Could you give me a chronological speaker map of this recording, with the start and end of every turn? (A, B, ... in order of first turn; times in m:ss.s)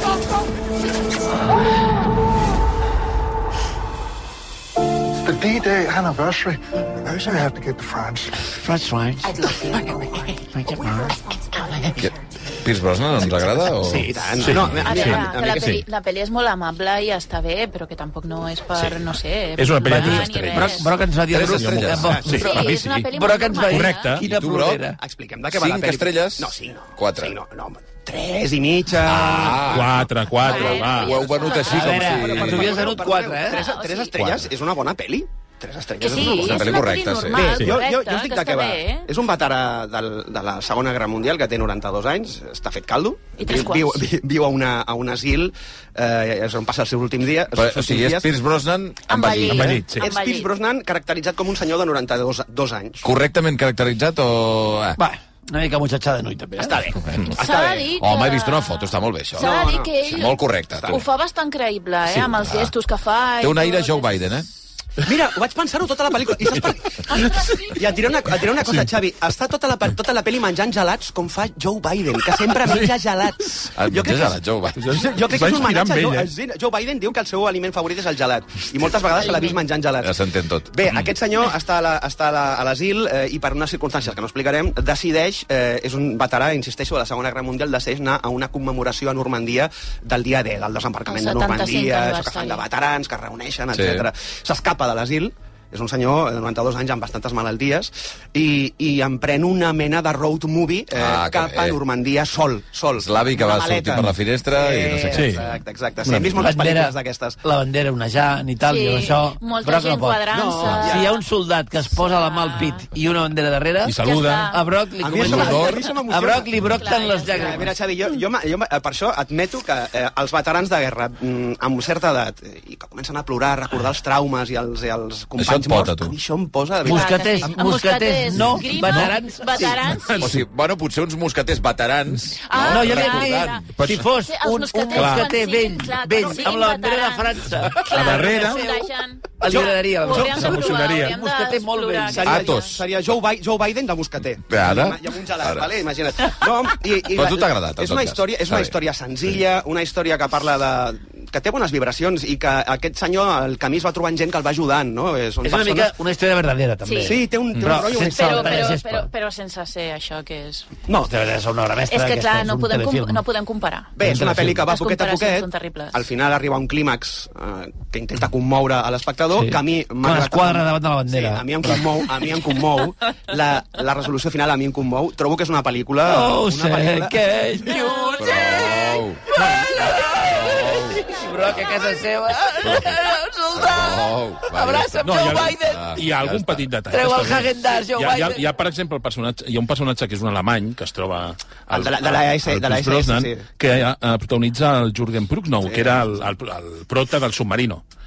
0:05.2-0:08.4 A
0:08.5-0:09.6 B
0:10.5-0:11.2 B
0:12.0-0:14.9 C
0:13.2-0:15.8 D
0:14.4-0:15.8 E
0:14.8-0:20.9 F
0:18.8-0:23.1 E
0:19.8-0:25.0 B
0:21.3-0:22.4 C
0:21.9-0:22.5 D
0:22.3-0:24.1 F
0:23.6-0:24.2 E
0:24.2-0:24.8 C
0:25.0-0:48.3 D
0:25.5-0:27.4 C
0:29.0-0:30.0 C
0:29.6-0:31.2 E
0:30.4-0:32.5 F
0:30.6-0:32.9 C
0:31.7-0:33.6 B
0:33.5-0:34.1 F
0:34.2-0:34.4 C
0:36.0-0:39.1 F
0:36.2-0:37.4 C
0:43.4-0:44.0 F
0:47.5-0:49.8 C
0:49.1-0:50.5 F
0:49.5-0:50.1 E
0:49.7-0:53.1 D
0:53.0-0:55.0 C
0:55.0-0:56.7 B
0:56.6-0:58.0 D
0:57.0-0:57.4 C
0:57.4-1:04.2 F
0:58.0-0:59.5 C
0:59.3-1:01.0 D
1:00.1-1:01.0 C
1:02.2-1:02.7 C
1:03.4-1:04.5 C
1:05.0-1:14.4 D
1:07.1-1:08.2 F
1:08.6-1:08.9 E
1:12.6-1:12.9 E
1:13.7-1:15.1 C
1:14.8-1:16.3 E
1:14.9-1:47.4 D
1:19.2-1:19.6 F
1:20.0-1:21.1 C
1:31.1-1:32.6 F
1:33.7-1:34.1 C
1:40.9-1:41.8 C
1:43.0-1:45.4 C
1:45.1-1:45.4 E
1:46.0-1:46.4 E
1:46.4-1:50.2 B
1:48.6-1:51.2 F
1:50.3-1:51.1 D
1:50.7-1:54.0 B
1:51.9-1:52.8 F
1:53.8-1:54.5 E
1:54.0-1:54.6 F
1:54.5-1:57.7 B
1:55.0-1:56.6 D
1:55.2-1:55.8 C
1:55.3-1:55.9 F
1:56.7-1:57.7 F
1:57.3-2:07.6 D
2:05.4-2:06.1 C
2:06.8-2:10.3 F
2:06.8-2:09.8 B
2:08.9-2:09.1 E
2:09.9-2:10.4 E
2:10.2-2:13.9 C
2:12.4-2:22.8 F
2:12.7-2:18.7 B
2:14.9-2:15.3 E
2:17.8-2:18.7 E
2:19.4-2:22.3 B
2:20.0-2:21.1 E
2:22.1-2:35.9 D
2:22.2-2:22.8 C
2:24.5-2:25.7 C
2:27.1-2:28.8 C
2:35.4-2:39.1 B
2:36.8-2:37.2 F
2:37.0-2:38.8 D
2:37.9-2:40.7 F
2:41.0-2:43.2 B
2:41.9-2:46.0 F
2:44.0-2:57.3 D
2:44.0-2:44.6 B
2:49.3-2:52.1 B
2:56.0-3:06.0 B
2:57.6-2:59.0 F
2:58.2-2:59.2 C
3:00.2-3:01.6 C
3:02.6-3:03.0 C
3:03.5-3:06.7 C
3:05.0-3:17.8 E
3:06.9-3:08.4 B
3:11.7-3:13.4 D
3:15.6-3:16.1 D